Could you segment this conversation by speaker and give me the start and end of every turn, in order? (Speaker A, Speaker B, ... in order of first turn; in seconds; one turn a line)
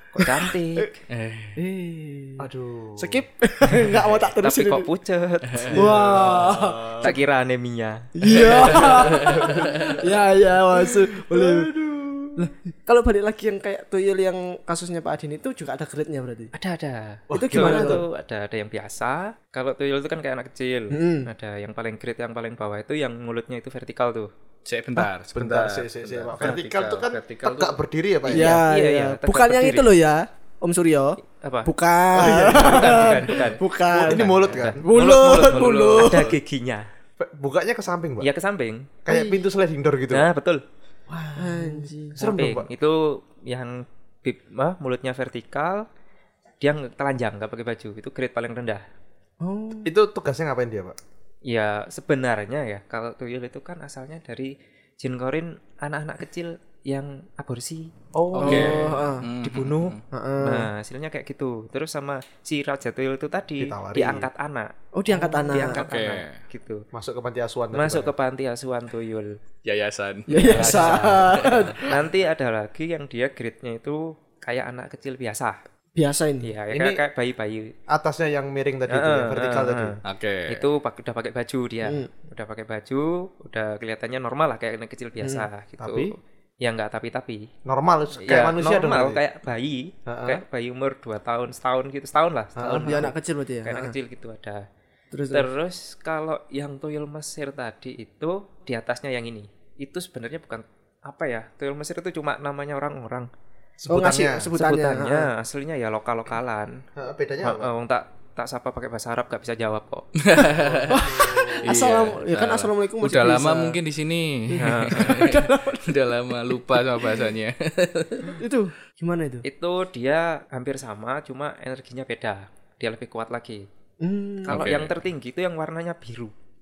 Speaker A: 0.1-0.9
Speaker B: 0.2-0.9
Speaker C: 1.1-1.6
Speaker B: 1.6-4.9
Speaker D: 2.4-3.2
Speaker A: 4.4-6.2
Speaker D: 5.6-7.2
Speaker B: 5.7-7.2
Speaker A: 7.0-8.9
Speaker B: 8.2-11.7
Speaker C: 8.4-10.0
Speaker D: 8.6-10.0
Speaker D: 10.7-12.4
Speaker B: 12.4-16.5
Speaker A: 16.5-24.3
Speaker D: 17.3-18.1
Speaker B: 17.3-18.0
Speaker B: 20.9-21.3
Speaker C: 24.6-27.8
Speaker D: 25.4-28.6
Speaker B: 28.3-36.4
Speaker A: 28.3-29.9
Speaker A: 31.3-31.7
Speaker D: 32.1-33.3
Speaker A: 32.5-36.9
Speaker D: 33.9-34.9
Speaker D: 35.4-36.1
Speaker D: 37.2-38.3
Speaker A: 38.2-38.9
Speaker D: 39.0-40.3
Speaker B: 39.1-39.4
Speaker A: 40.1-40.6
Speaker B: 41.1-42.2
Speaker D: 42.2-42.7
Speaker A: 42.2-45.9
Speaker A: 46.6-48.8
Speaker B: 49.4-49.9
Speaker D: 49.9-51.0
Speaker A: 51.5-57.9
Speaker D: 58.1-58.8
Speaker C: 58.3-60.0
Speaker B: 58.4-59.3
Speaker A: 58.4-58.8
Speaker A: 59.4-66.8
Speaker B: 60.1-60.7
Speaker D: 63.6-64.3
Speaker B: 64.9-65.8
Speaker C: 65.7-66.4
Speaker D: 66.9-68.1
Speaker A: 67.7-69.4
Speaker C: 69.6-71.8
Speaker B: 70.3-72.0
Speaker A: 70.4-75.6
Speaker B: 76.0-76.5
Speaker A: 76.4-77.7
Speaker D: 76.7-77.0
Speaker D: 77.9-80.0
Speaker A: 78.9-87.5
Speaker C: 80.0-80.7
Speaker B: 85.2-85.5
Speaker D: 85.8-86.1
Speaker D: 87.7-89.2
Speaker A: 88.2-94.6
Speaker D: 90.1-90.4
Speaker D: 92.6-93.1
Speaker B: 92.7-94.0
Speaker B: 95.1-95.5
Speaker A: 95.3-103.3
Speaker D: 103.8-104.5
Speaker B: 103.9-105.3
Speaker A: 104.5-106.8
Speaker D: 107.0-107.7
Speaker A: 107.4-110.1
Speaker C: 110.2-111.0
Speaker D: 110.6-111.7
Speaker B: 110.9-113.8
Speaker C: 111.6-118.4
Speaker B: 114.5-116.1
Speaker A: 114.6-115.3
Speaker B: 116.7-117.2
Speaker B: 118.3-119.4
Speaker A: 119.4-123.7
Speaker B: 124.0-124.7
Speaker C: 124.5-125.0
Speaker A: 124.5-126.3